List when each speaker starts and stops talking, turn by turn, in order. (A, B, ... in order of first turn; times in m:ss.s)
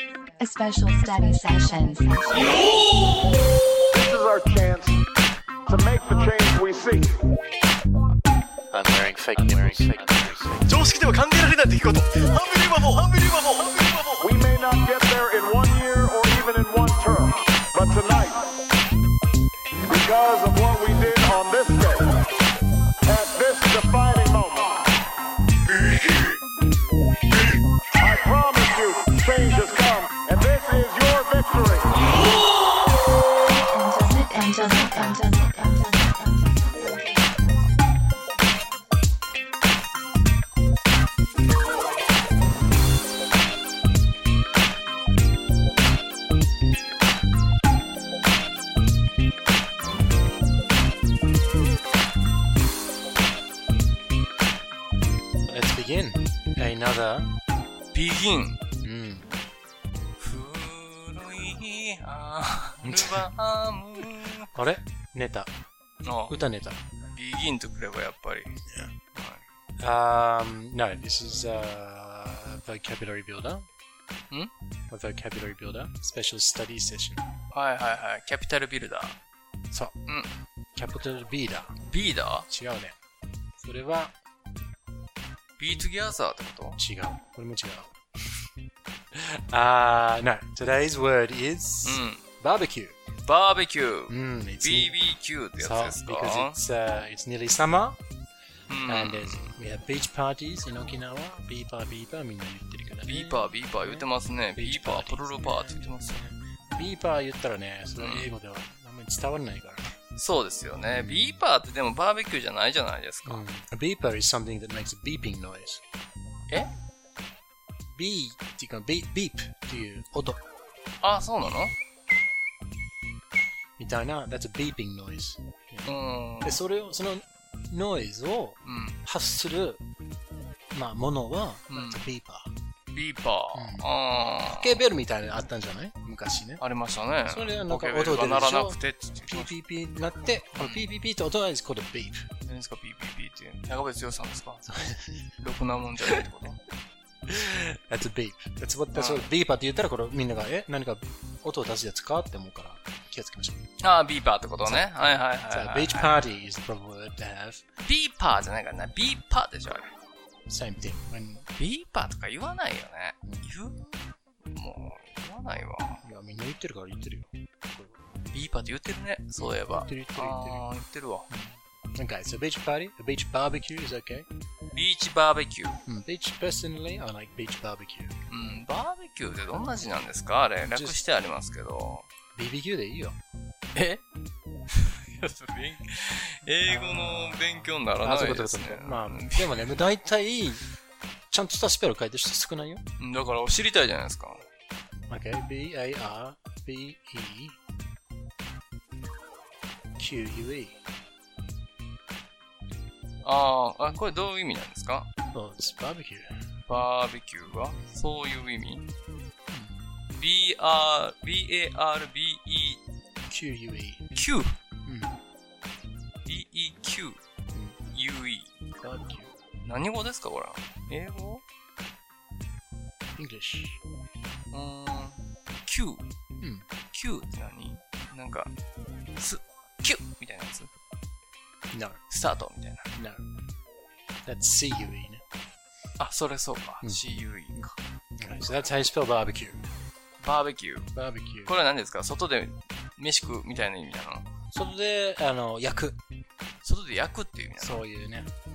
0:00.4-0:02.9 A
0:03.9-0:05.0 B
0:05.7-0:07.2 B
0:08.7-0:10.6 C
0:09.0-0:14.2 D
0:10.7-0:11.8 E
0:12.4-0:13.6 E
0:14.2-0:18.5 B
0:19.9-0:22.2 B
0:23.0-0:24.8 B
0:27.9-0:32.0 B
0:33.5-0:37.7 A
0:55.5-0:57.3 C
0:57.9-0:58.6 E
0:58.8-0:59.3 C
1:00.2-1:04.5 E
1:02.8-1:03.3 C
1:04.5-1:05.5 C
1:06.0-1:06.4 E
1:06.3-1:06.8 C
1:07.1-1:08.6 E
1:09.1-1:09.4 E
1:09.8-1:13.7 C
1:14.9-1:17.2 C
1:17.5-1:19.2 E
1:19.7-1:20.0 C
1:20.0-1:20.3 E
1:20.7-1:21.8 C
1:21.8-1:22.5 E
1:22.5-1:22.9 C
1:23.6-1:24.1 C
1:25.6-1:26.8 E
1:26.7-1:27.9 C
1:29.1-1:33.0 C
1:31.8-1:32.2 E
1:33.2-1:36.6 E
1:34.1-1:35.0 C
1:35.6-1:38.0 C
1:38.7-1:39.5 E
1:38.8-1:49.9 C
1:43.0-1:46.3 E
1:48.0-1:48.3 E
1:50.1-1:53.4 E
1:50.9-1:51.4 C
1:53.2-1:55.8 C
1:57.9-2:00.4 C
2:01.0-2:01.7 E
2:03.8-2:09.8 C
2:05.8-2:06.6 E
2:08.6-2:09.0 E
2:10.7-2:12.5 C
2:11.7-2:12.0 E
2:12.9-2:14.8 E
2:13.5-2:13.9 C
2:14.4-2:16.6 C
2:16.6-2:19.5 E
2:17.2-2:22.3 C
2:20.5-2:20.8 E
2:22.4-2:26.6 E
2:24.7-2:25.2 C
2:27.3-2:33.6 C
2:28.9-2:29.3 E
2:33.8-2:36.3 E
2:34.6-2:37.6 C
2:37.8-2:39.9 E
2:40.5-2:41.5 C
2:41.5-2:46.0 E
2:43.3-2:43.5 C
2:46.0-2:48.0 C
2:48.3-2:51.3 E
2:49.4-2:50.7 C
2:51.3-2:54.3 C
2:54.7-2:55.8 E
2:55.8-2:58.1 C
2:58.3-3:02.1 E
3:00.7-3:01.0 C
3:02.3-3:03.2 C
3:03.7-3:04.0 E
3:04.7-3:09.7 E
3:06.7-3:10.7 C
3:11.3-3:12.8 C
3:13.0-3:14.4 E
3:15.1-3:17.6 C
3:20.0-3:20.8 C
3:23.2-3:25.1 E
3:25.3-3:26.4 C
3:26.7-3:28.8 E
3:27.7-3:28.0 C
3:30.1-3:32.8 E
3:33.3-3:34.1 C
3:34.1-3:34.6 E
3:34.8-3:35.1 C
3:36.2-3:37.2 E
3:37.9-3:38.5 E
3:38.8-3:39.4 C
3:39.6-3:41.4 E
3:43.2-3:43.8 C
3:44.5-3:46.0 E
3:46.4-3:46.6 C
3:46.9-3:48.5 E
3:49.2-3:50.7 E
3:51.7-3:52.0 C
3:52.1-3:52.9 E
3:52.9-3:53.2 C
3:54.2-3:55.2 C
3:56.0-3:57.7 E
3:57.5-3:59.6 C
4:00.2-4:04.3 E
4:00.9-4:01.5 C
4:04.5-4:06.0 C
4:06.6-4:07.8 E
4:07.5-4:08.3 C